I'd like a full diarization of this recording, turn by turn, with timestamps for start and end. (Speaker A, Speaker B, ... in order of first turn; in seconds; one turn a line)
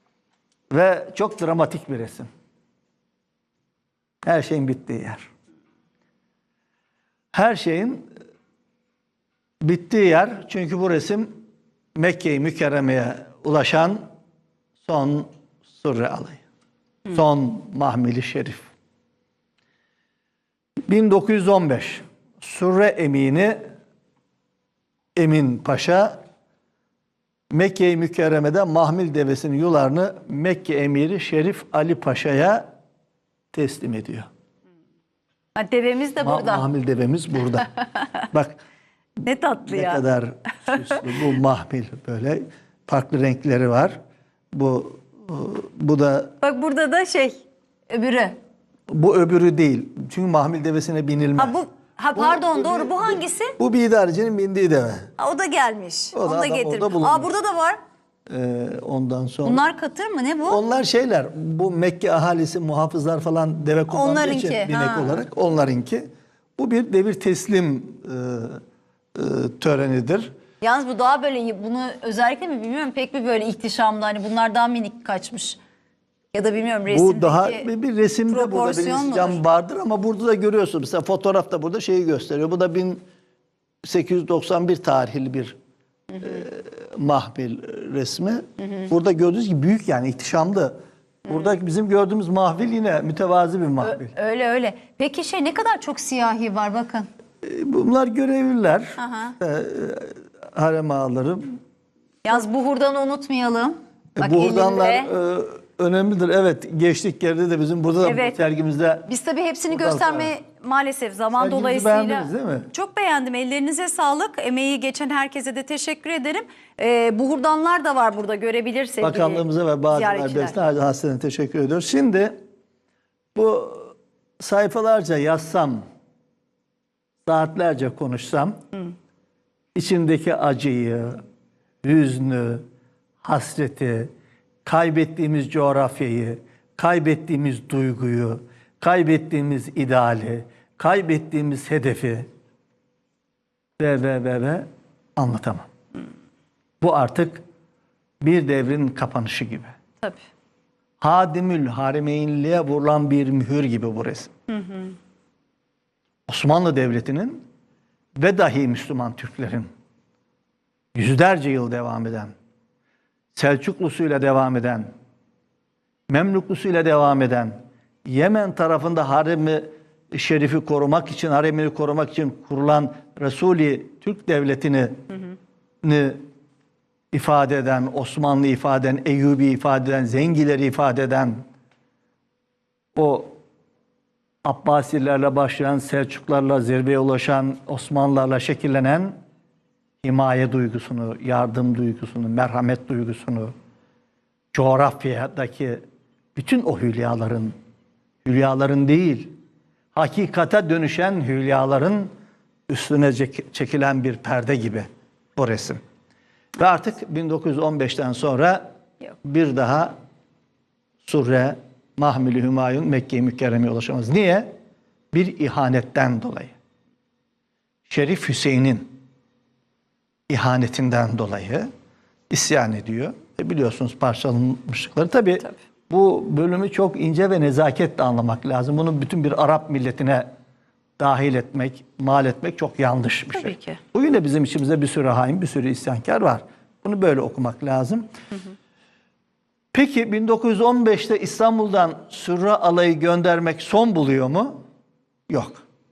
Speaker A: 0.7-2.3
Speaker A: 4.2-5.3
Speaker A: 7.3-8.1
Speaker A: 9.6-11.3
Speaker A: 11.9-14.0
Speaker A: 14.8-16.4
Speaker A: 17.1-18.7
Speaker A: 20.9-23.6
Speaker A: 25.1-26.2
Speaker A: 27.5-32.6
Speaker A: 33.5-34.3
Speaker B: 35.5-36.6
Speaker A: 36.2-37.7
Speaker A: 38.3-38.6
Speaker B: 39.2-40.0
Speaker A: 39.6-44.0
Speaker B: 40.7-40.9
Speaker A: 44.5-46.4
Speaker B: 46.4-48.4
Speaker A: 48.9-51.6
Speaker B: 51.4-53.5
Speaker A: 52.1-55.1
Speaker B: 55.2-57.8
Speaker A: 56.1-57.3
Speaker A: 58.3-59.6
Speaker B: 59.4-60.6
Speaker A: 60.5-68.6
Speaker B: 63.9-65.2
Speaker A: 69.1-70.3
Speaker B: 70.6-75.6
Speaker B: 76.3-77.7
Speaker A: 76.9-83.0
Speaker B: 78.3-79.4
Speaker A: 83.8-85.6
Speaker A: 86.2-94.1
Speaker B: 93.8-97.1
Speaker A: 97.4-101.5
Speaker B: 99.0-99.3
Speaker B: 102.2-105.1
Speaker A: 104.2-109.1
Speaker B: 108.0-108.3
Speaker B: 109.1-120.5
Speaker A: 109.7-110.3
Speaker A: 111.4-112.7
Speaker A: 119.0-122.4
Speaker A: 123.3-125.8
Speaker A: 127.2-128.6
Speaker A: 129.7-131.2
Speaker A: 131.8-132.6
Speaker A: 133.2-134.1
Speaker A: 134.6-142.3
Speaker A: 143.8-145.7
Speaker A: 146.8-147.4
Speaker A: 148.2-149.7
Speaker A: 151.0-154.3
Speaker B: 154.5-154.9
Speaker A: 156.3-157.4
Speaker A: 158.2-159.7
Speaker A: 160.9-162.3
Speaker A: 163.3-164.9
Speaker A: 166.1-175.1
Speaker A: 175.8-176.2
Speaker A: 177.1-181.4
Speaker A: 182.9-183.3
Speaker A: 184.4-189.2
Speaker A: 190.0-193.5
Speaker A: 194.5-195.8
Speaker A: 196.3-197.5
Speaker A: 198.2-199.3
Speaker A: 199.9-202.1
Speaker A: 202.7-205.8
Speaker A: 206.6-208.6
Speaker A: 209.2-209.9
Speaker A: 211.0-214.5
Speaker A: 215.1-216.5
Speaker A: 217.9-219.0
Speaker A: 220.3-221.7
Speaker A: 222.3-230.3
Speaker A: 231.0-238.1
Speaker B: 233.3-233.8
Speaker A: 239.7-244.6
Speaker A: 245.3-245.6